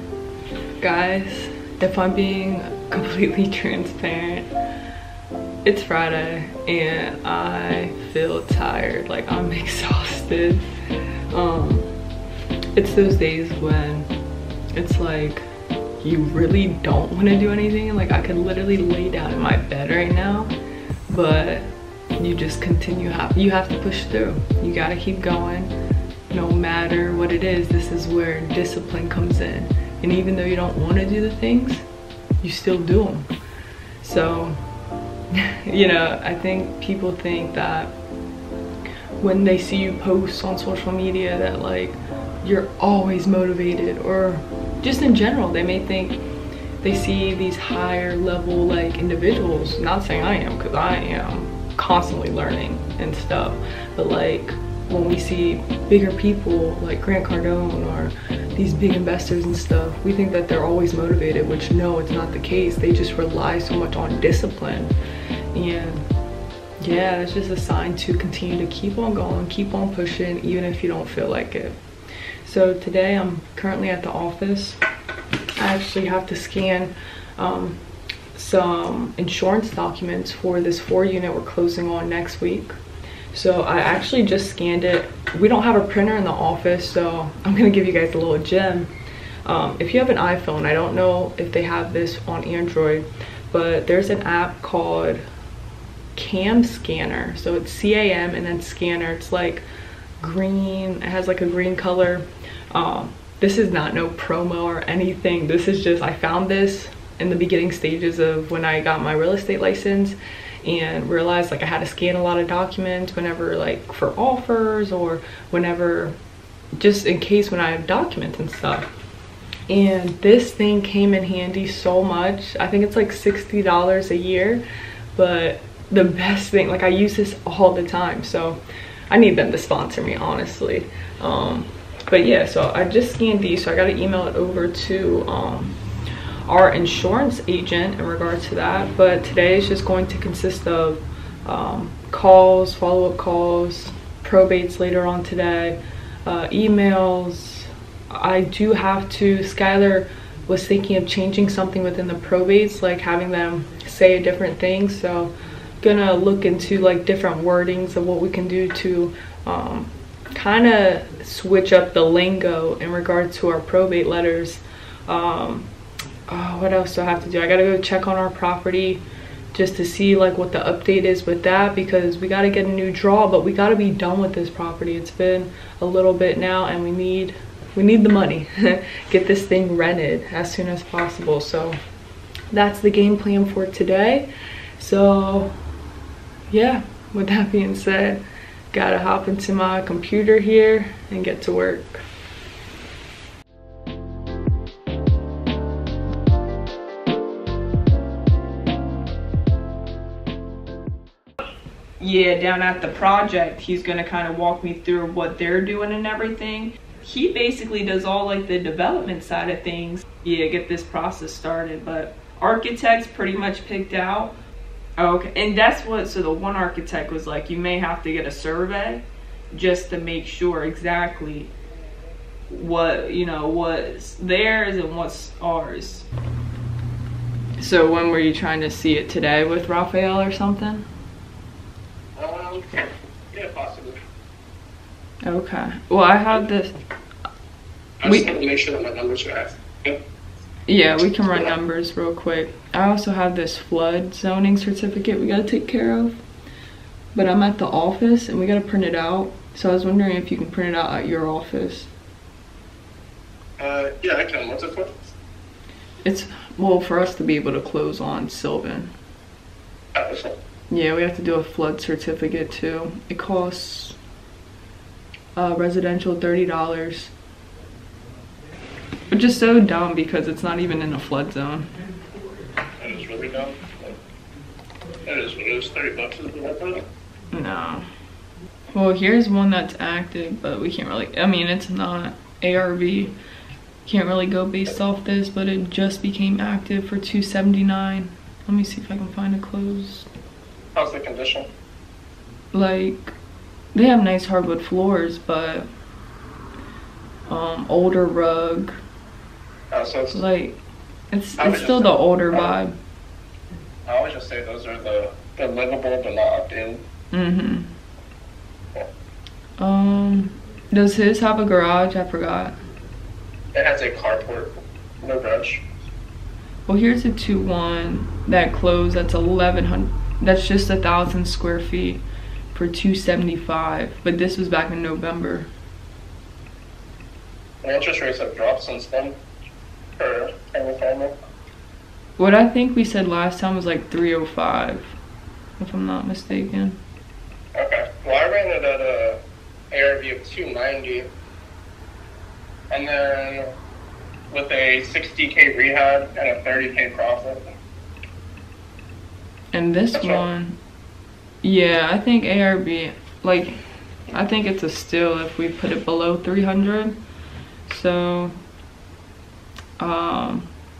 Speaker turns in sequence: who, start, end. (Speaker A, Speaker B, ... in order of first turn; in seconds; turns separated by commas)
Speaker A: 0.8-4.5, Speaker A: 5.6-10.7, Speaker A: 11.3-11.9, Speaker A: 12.7-14.1, Speaker A: 14.7-15.4, Speaker A: 16.0-20.5, Speaker A: 21.1-25.7, Speaker A: 26.3-31.8, Speaker A: 32.4-33.3, Speaker A: 34.0-34.6, Speaker A: 35.3-37.9, Speaker A: 39.2-46.2, Speaker A: 46.8-64.9, Speaker A: 65.5-66.0, Speaker A: 66.8-71.8, Speaker A: 72.4-74.8, Speaker A: 75.6-77.8, Speaker A: 78.3-82.8, Speaker A: 83.3-88.9, Speaker A: 89.4-95.2, Speaker A: 96.1-99.6, Speaker A: 100.2-116.2, Speaker A: 116.8-118.9, Speaker A: 119.7-124.6, Speaker A: 125.1-135.8, Speaker A: 136.5-165.7, Speaker A: 166.3-181.8, Speaker A: 182.5-185.5, Speaker A: 186.5-192.0, Speaker A: 202.0-214.3, Speaker A: 215.0-221.5, Speaker A: 222.5-226.1, Speaker A: 227.6-230.9, Speaker B: 232.2-234.0, Speaker A: 235.2-236.7, Speaker B: 238.0-240.0, Speaker A: 238.0-238.3, Speaker A: 240.7-246.2, Speaker A: 247.1-251.9, Speaker B: 253.6-254.9, Speaker A: 256.0-258.9, Speaker B: 259.9-260.3, Speaker A: 260.7-264.0, Speaker A: 265.4-267.1, Speaker A: 269.1-271.7, Speaker B: 272.8-273.9, Speaker B: 275.1-276.8, Speaker A: 277.3-277.8, Speaker A: 278.7-283.1, Speaker A: 283.8-290.1, Speaker B: 290.7-291.5, Speaker A: 292.5-293.1, Speaker A: 293.7-295.7, Speaker A: 297.3-298.8, Speaker B: 299.7-300.2, Speaker A: 300.1-300.6, Speaker A: 301.1-302.7, Speaker B: 301.4-302.5, Speaker B: 303.9-306.8, Speaker A: 307.1-307.7, Speaker A: 309.6-312.6, Speaker B: 313.5-315.6, Speaker A: 316.7-325.5, Speaker B: 327.6-329.1, Speaker B: 330.0-331.1, Speaker A: 332.2-334.9, Speaker A: 335.6-336.8, Speaker B: 337.5-339.2, Speaker B: 339.7-341.1, Speaker B: 342.7-343.5, Speaker B: 344.3-347.4, Speaker A: 349.5-350.6, Speaker B: 349.9-350.2, Speaker A: 351.4-353.6, Speaker A: 354.1-357.0, Speaker A: 357.7-358.3, Speaker A: 359.8-360.5